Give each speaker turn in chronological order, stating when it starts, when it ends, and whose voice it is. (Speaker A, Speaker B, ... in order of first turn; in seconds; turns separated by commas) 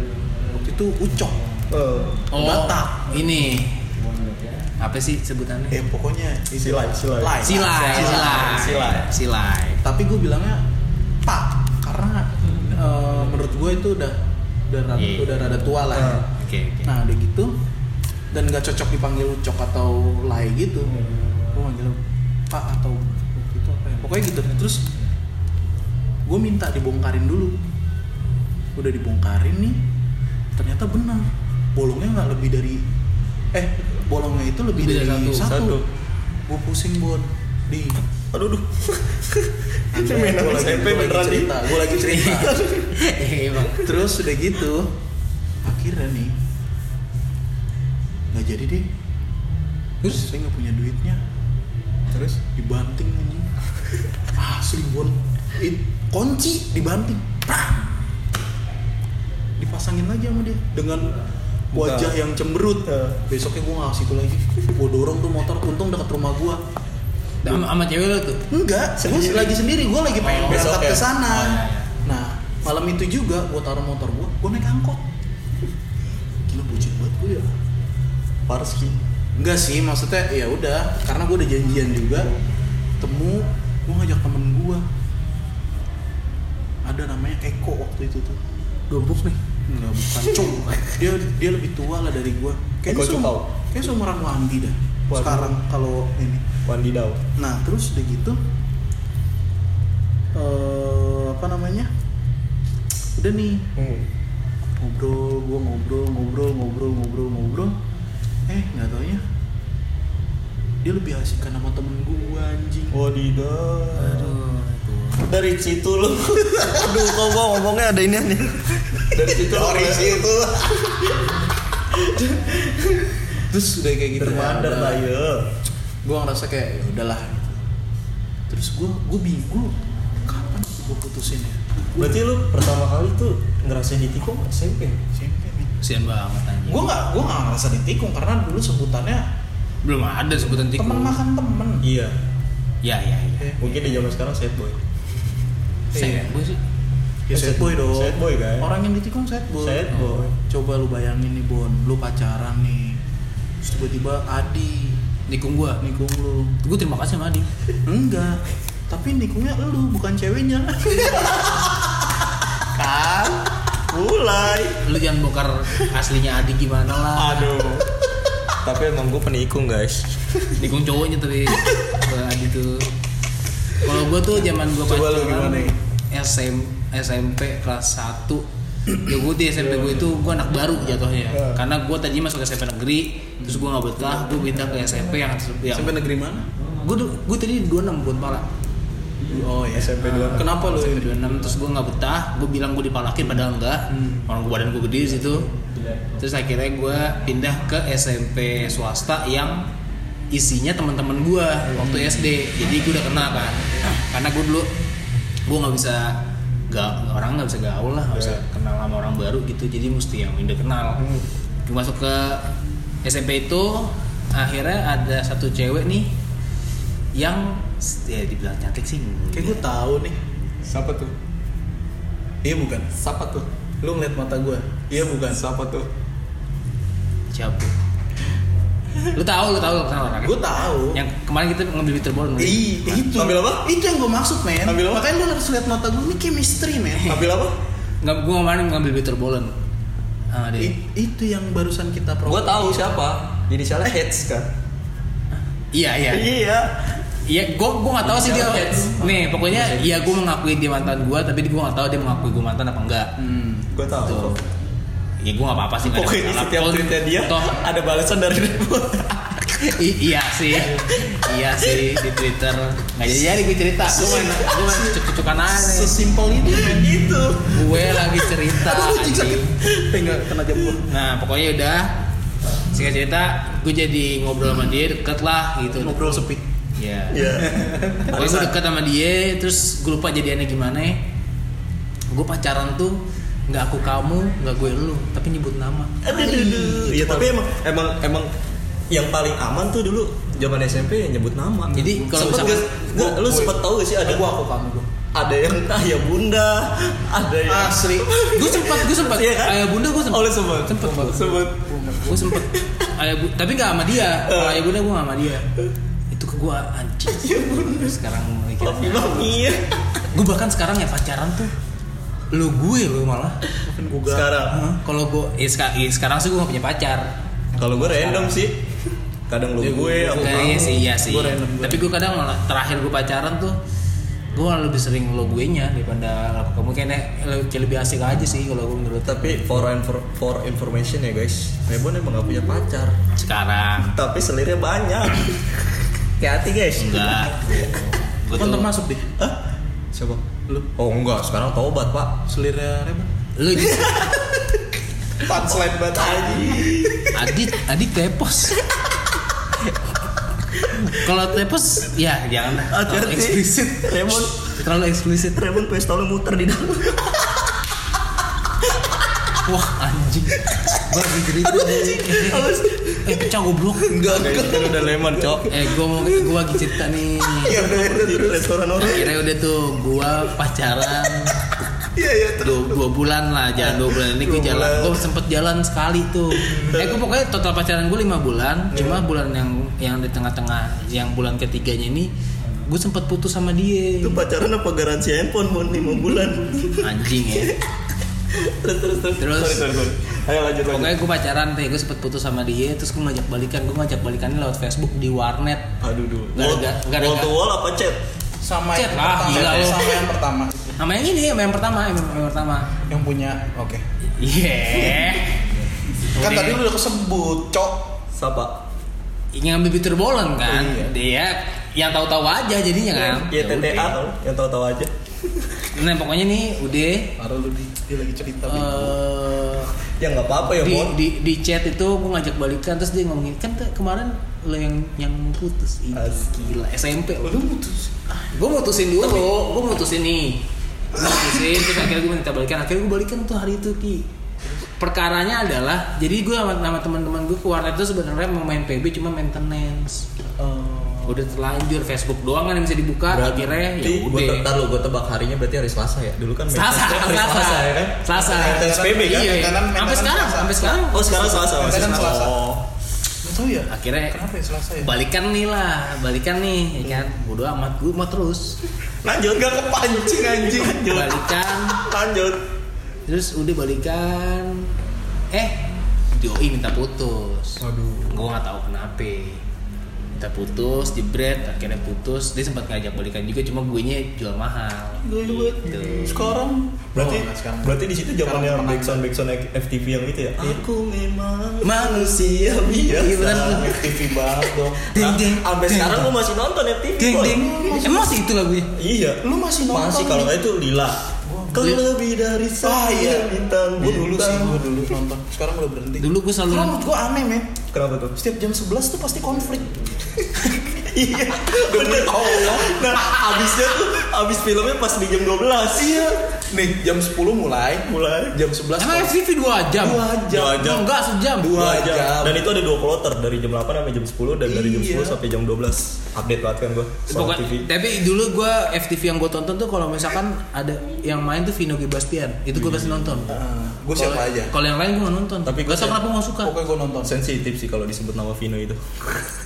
Speaker A: 0.5-1.4, Speaker B: 1.7-2.2, Speaker C: 2.3-3.9, Speaker A: 2.4-3.1, Speaker C: 4.8-5.8, Speaker A: 5.7-8.7, Speaker B: 6.6-9.1, Speaker C: 7.4-9.8, Speaker A: 9.8-10.6, Speaker A: 11.2-14.2, Speaker A: 14.7-16.2, Speaker C: 14.9-16.9, Speaker B: 15.9-16.2, Speaker A: 16.9-17.5, Speaker A: 18.3-20.9, Speaker A: 21.5-24.9, Speaker A: 26.2-27.6, Speaker A: 28.8-29.8, Speaker A: 30.6-32.8, Speaker A: 33.5-35.8, Speaker C: 34.8-35.5, Speaker B: 35.4-35.8, Speaker A: 36.5-38.0, Speaker B: 38.3-41.7, Speaker A: 39.9-42.7, Speaker C: 42.0-43.9, Speaker B: 42.4-43.0, Speaker A: 43.8-44.9, Speaker A: 45.6-46.3, Speaker A: 48.3-48.9, Speaker A: 50.0-51.2, Speaker A: 52.3-53.5, Speaker A: 54.4-57.9, Speaker A: 59.6-61.1, Speaker B: 61.7-62.2, Speaker A: 61.7-66.6, Speaker B: 62.8-63.2, Speaker C: 67.4-68.4, Speaker A: 68.5-75.0, Speaker B: 69.0-69.6, Speaker C: 70.2-71.9, Speaker B: 70.3-71.0, Speaker A: 76.5-77.5, Speaker B: 78.5-79.0, Speaker A: 79.4-82.3, Speaker A: 83.0-84.8, Speaker A: 86.8-88.4, Speaker C: 88.9-89.4, Speaker A: 89.7-96.4, Speaker B: 92.9-93.5, Speaker B: 95.1-95.6, Speaker B: 96.6-97.2, Speaker A: 97.4-98.4, Speaker A: 100.3-101.9, Speaker A: 103.2-103.7, Speaker B: 103.8-104.1, Speaker A: 104.8-107.8, Speaker A: 108.5-109.2, Speaker A: 110.8-113.0, Speaker B: 112.9-114.4, Speaker C: 114.0-115.2, Speaker B: 115.2-121.3, Speaker A: 119.1-121.1, Speaker B: 121.9-123.2, Speaker A: 123.3-125.1, Speaker B: 124.1-125.5, Speaker A: 126.0-127.6, Speaker A: 128.5-132.0, Speaker B: 132.0-135.0, Speaker A: 135.1-135.8, Speaker C: 135.8-136.9, Speaker A: 136.7-139.2, Speaker C: 139.8-141.2, Speaker A: 140.4-141.8, Speaker B: 141.8-142.2, Speaker C: 142.8-143.6, Speaker B: 143.6-144.8, Speaker C: 145.9-146.6, Speaker A: 145.9-146.3, Speaker A: 147.3-153.0, Speaker B: 147.3-148.7, Speaker B: 149.6-150.4, Speaker A: 153.6-155.0, Speaker C: 155.3-155.8, Speaker A: 155.8-156.6, Speaker C: 156.6-157.5, Speaker A: 157.9-161.7, Speaker B: 161.0-161.9, Speaker A: 162.7-163.5, Speaker B: 163.9-164.8, Speaker C: 164.8-167.6, Speaker B: 167.1-170.6, Speaker C: 170.6-172.9, Speaker C: 173.8-185.9, Speaker A: 174.8-175.8, Speaker B: 179.8-180.2, Speaker B: 181.3-181.6, Speaker A: 183.4-183.7, Speaker A: 185.7-186.5, Speaker C: 186.8-188.4, Speaker A: 189.3-191.4, Speaker B: 189.7-190.5, Speaker C: 189.9-195.5, Speaker A: 193.9-194.2, Speaker C: 196.2-199.7, Speaker C: 200.3-204.7, Speaker C: 205.5-206.2, Speaker C: 206.7-211.0, Speaker B: 208.1-208.4, Speaker B: 211.0-211.3, Speaker C: 211.7-212.5, Speaker C: 213.0-216.1, Speaker C: 217.2-219.6, Speaker A: 219.3-220.2, Speaker B: 220.6-221.1, Speaker A: 222.4-222.9, Speaker B: 222.9-223.4, Speaker A: 223.8-225.4, Speaker B: 225.3-225.9, Speaker C: 227.3-227.7, Speaker C: 229.1-233.0, Speaker A: 230.2-231.0, Speaker A: 232.4-237.3, Speaker B: 233.1-233.7, Speaker B: 234.6-235.1, Speaker B: 237.0-237.6, Speaker C: 238.0-239.6, Speaker C: 240.3-240.7, Speaker A: 240.6-242.9, Speaker B: 242.2-244.5, Speaker C: 245.3-246.3, Speaker B: 246.1-246.7, Speaker C: 247.1-253.1, Speaker B: 248.0-250.2, Speaker A: 253.2-253.7, Speaker B: 253.7-254.4, Speaker C: 254.0-254.4, Speaker C: 255.2-257.6, Speaker B: 255.8-259.7, Speaker C: 259.6-265.9, Speaker B: 261.6-261.9, Speaker A: 263.9-267.1, Speaker B: 266.5-267.6, Speaker C: 267.5-269.6, Speaker A: 267.7-270.9, Speaker C: 270.9-271.9, Speaker C: 272.7-277.3, Speaker A: 275.7-276.4, Speaker B: 277.1-278.5, Speaker A: 277.3-278.1, Speaker C: 278.1-281.0, Speaker C: 282.1-286.5, Speaker B: 286.0-288.3, Speaker A: 286.1-287.3, Speaker B: 288.9-294.2, Speaker A: 291.7-294.9, Speaker C: 291.7-292.6, Speaker B: 295.1-301.6, Speaker A: 297.5-298.1, Speaker C: 298.3-301.2, Speaker A: 301.2-302.4, Speaker C: 302.1-305.5, Speaker B: 302.5-302.9, Speaker B: 304.2-304.7, Speaker C: 306.1-309.3, Speaker B: 307.1-308.0, Speaker B: 308.6-309.7, Speaker C: 310.1-311.5, Speaker C: 312.3-313.4, Speaker A: 313.6-314.4, Speaker B: 314.1-314.6, Speaker C: 314.5-317.1, Speaker B: 317.6-318.7, Speaker C: 317.6-318.4, Speaker B: 319.3-320.8, Speaker A: 319.6-321.9, Speaker C: 320.1-323.6, Speaker C: 324.3-329.7, Speaker B: 329.0-333.0, Speaker C: 333.1-333.9, Speaker B: 333.8-338.1, Speaker C: 336.8-338.7, Speaker A: 338.3-339.1, Speaker B: 339.9-342.2, Speaker A: 342.3-343.1, Speaker C: 343.4-344.1, Speaker B: 343.6-344.6, Speaker B: 345.2-347.1, Speaker A: 345.2-346.6, Speaker C: 347.1-348.6, Speaker B: 348.6-348.9, Speaker B: 350.6-350.9, Speaker C: 350.6-355.4, Speaker B: 352.6-354.6, Speaker B: 355.2-357.5, Speaker B: 358.7-359.3, Speaker C: 359.4-364.7, Speaker B: 361.6-363.3, Speaker A: 363.9-365.4, Speaker B: 364.1-365.8, Speaker C: 365.4-367.6, Speaker A: 367.4-368.5, Speaker B: 367.4-369.2, Speaker C: 368.8-371.4, Speaker A: 371.9-372.8, Speaker C: 372.4-382.1, Speaker B: 373.6-375.1, Speaker B: 378.7-379.1, Speaker C: 382.6-384.2, Speaker B: 384.0-387.6, Speaker C: 386.8-387.6, Speaker B: 388.3-390.9, Speaker C: 389.2-389.7, Speaker C: 390.6-395.7, Speaker B: 395.8-398.0, Speaker C: 396.3-397.3, Speaker A: 398.4-400.8, Speaker C: 398.7-400.0, Speaker B: 399.3-399.7, Speaker C: 400.8-402.8, Speaker A: 402.9-403.9, Speaker C: 404.2-405.4, Speaker A: 406.1-407.9, Speaker C: 406.1-406.6, Speaker B: 408.1-408.6, Speaker C: 409.3-414.0, Speaker A: 410.4-410.9, Speaker B: 413.1-415.6, Speaker C: 415.7-417.1, Speaker A: 417.2-419.0, Speaker C: 418.5-419.7, Speaker B: 420.0-421.0, Speaker C: 420.5-427.4, Speaker B: 425.9-426.2, Speaker A: 427.2-428.3, Speaker C: 428.3-434.1, Speaker C: 434.8-440.1, Speaker A: 440.4-441.2, Speaker C: 441.1-444.5, Speaker B: 443.1-449.4, Speaker C: 446.5-452.1, Speaker A: 448.1-450.8, Speaker B: 450.9-452.6, Speaker A: 451.4-452.4, Speaker A: 453.2-454.9, Speaker C: 453.7-454.2, Speaker C: 454.8-458.6, Speaker B: 459.0-462.4, Speaker A: 460.2-460.6, Speaker C: 460.8-461.8, Speaker C: 463.1-464.7, Speaker C: 465.3-469.4, Speaker B: 467.6-468.2, Speaker C: 470.1-476.2, Speaker A: 475.0-479.0, Speaker B: 475.4-476.4, Speaker B: 476.9-483.9, Speaker C: 481.6-483.8, Speaker A: 483.4-484.9, Speaker C: 484.9-486.1, Speaker B: 484.9-487.5, Speaker C: 487.0-488.7, Speaker A: 487.1-488.2, Speaker B: 488.7-494.9, Speaker A: 489.2-490.3, Speaker A: 491.2-491.8, Speaker A: 492.6-497.6, Speaker C: 496.0-496.8, Speaker B: 497.7-498.1, Speaker A: 498.1-500.3, Speaker B: 500.6-506.1, Speaker A: 501.4-503.1, Speaker A: 505.8-509.1, Speaker B: 507.9-508.4, Speaker C: 508.8-511.6, Speaker A: 509.8-510.7, Speaker B: 510.3-510.9, Speaker A: 511.4-512.4, Speaker B: 511.4-517.7, Speaker A: 514.5-515.2, Speaker C: 517.1-523.3, Speaker B: 522.5-523.4, Speaker A: 523.3-524.5, Speaker C: 523.9-526.5, Speaker B: 525.4-526.0, Speaker A: 526.4-527.1, Speaker B: 527.0-529.3